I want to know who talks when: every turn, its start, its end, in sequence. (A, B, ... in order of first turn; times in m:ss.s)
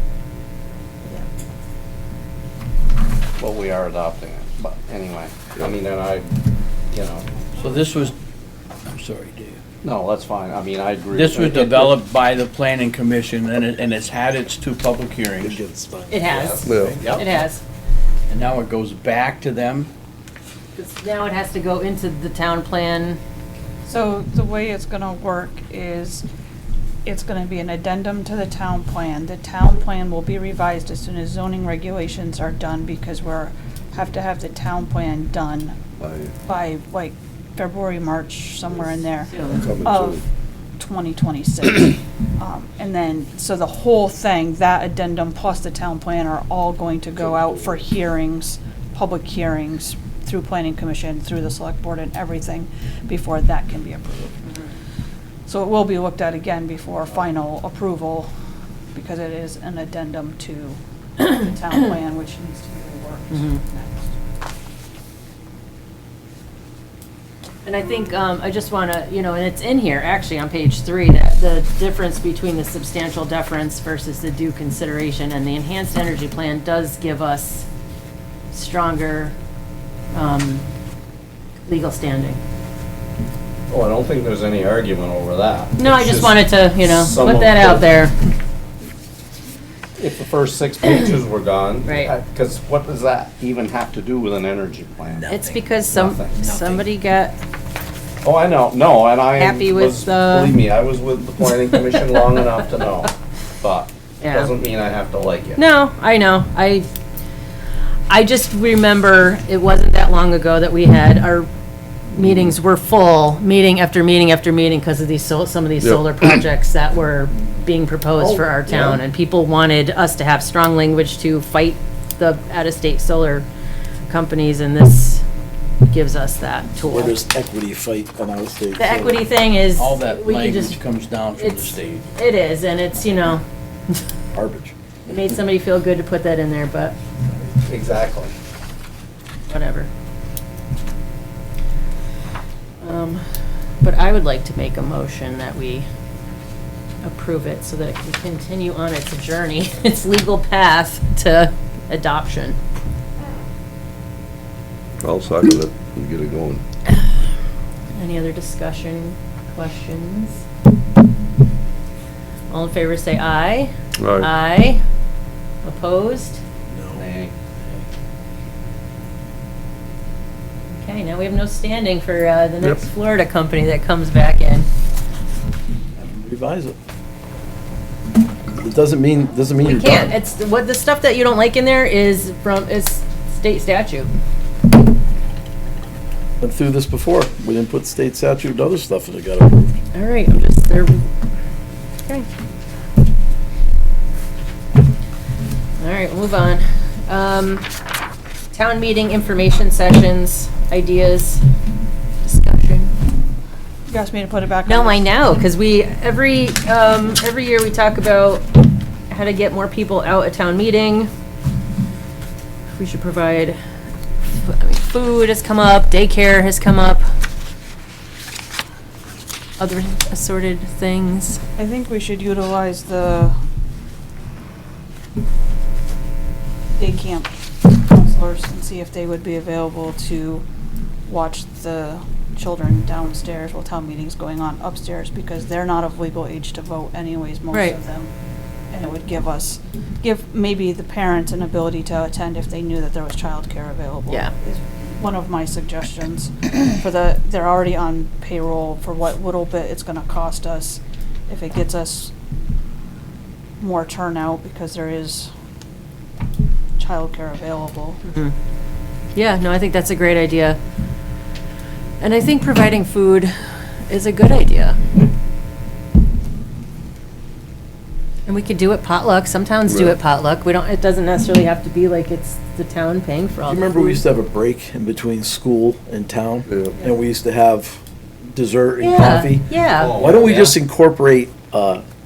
0:03.4-0:06.3 A
0:06.9-0:07.2 A
0:07.6-0:08.1 B
0:08.9-0:09.6 B
0:09.8-0:12.0 A
0:11.1-0:15.6 B
0:15.4-0:16.4 C
0:16.1-0:17.6 D
0:16.3-0:17.3 A
0:16.6-0:17.0 E
0:16.7-0:17.2 B
0:18.3-0:19.9 B
0:20.7-0:23.2 D
0:23.8-0:26.2 F
0:27.0-0:35.8 F
0:36.0-0:36.3 E
0:36.4-0:40.2 F
0:39.3-0:39.6 D
0:39.5-0:40.2 E
0:40.8-0:54.4 F
0:55.5-0:58.3 F
0:58.9-1:04.1 F
1:03.3-1:03.6 D
1:07.6-1:17.6 D
1:18.5-1:19.3 D
1:20.1-1:20.6 D
1:21.6-1:22.4 D
1:23.7-1:27.9 A
1:25.8-1:28.1 D
1:30.0-1:35.3 A
1:31.8-1:32.1 D
1:35.1-1:35.7 C
1:35.3-1:37.4 D
1:35.9-1:36.5 A
1:36.4-1:36.9 C
1:38.2-1:45.6 A
1:39.4-1:40.6 D
1:44.2-1:44.5 D
1:45.6-1:46.9 D
1:48.1-1:51.5 D
1:52.1-2:03.5 D
1:58.2-1:59.0 A
2:04.1-2:05.2 D
2:05.8-2:07.2 D
2:06.9-2:09.2 C
2:08.8-2:10.8 D
2:09.8-2:12.1 B
2:11.4-2:13.4 D
2:14.3-2:14.7 C
2:15.0-2:17.0 D
2:17.6-2:18.3 A
2:19.5-2:19.9 D
2:22.8-2:23.2 D
2:23.8-2:25.9 D
2:27.0-2:32.6 D
2:35.0-2:36.6 E
2:37.9-2:40.4 D
2:42.5-2:44.8 D
2:44.0-2:44.3 E
2:45.6-2:46.4 D
2:46.7-2:47.0 C
2:46.9-2:47.3 A
2:50.8-2:54.7 D
2:56.0-2:56.8 C
2:58.5-3:00.1 C
2:59.6-3:04.1 D
3:06.4-3:09.8 C
3:09.9-3:11.1 D
3:15.8-3:17.7 D
3:18.5-3:21.4 D
3:22.2-3:22.9 D
3:23.9-3:25.1 F
3:24.6-3:31.1 D
3:32.7-3:33.6 D
3:34.4-3:37.0 D
3:39.6-3:41.4 D
3:41.6-3:43.4 F
3:46.8-3:50.4 F
3:51.1-3:58.1 F
3:57.5-3:57.8 D
3:58.7-4:12.1 F
4:04.1-4:04.3 D
4:13.6-4:15.3 F
4:16.8-4:18.0 F
4:18.1-4:18.3 D
4:19.1-4:20.6 D
4:22.0-4:24.8 D
4:28.3-4:34.0 D
4:29.7-4:30.0 E
4:33.4-4:41.8 C
4:36.5-4:36.7 E
4:38.8-4:40.2 D
4:39.7-4:40.6 A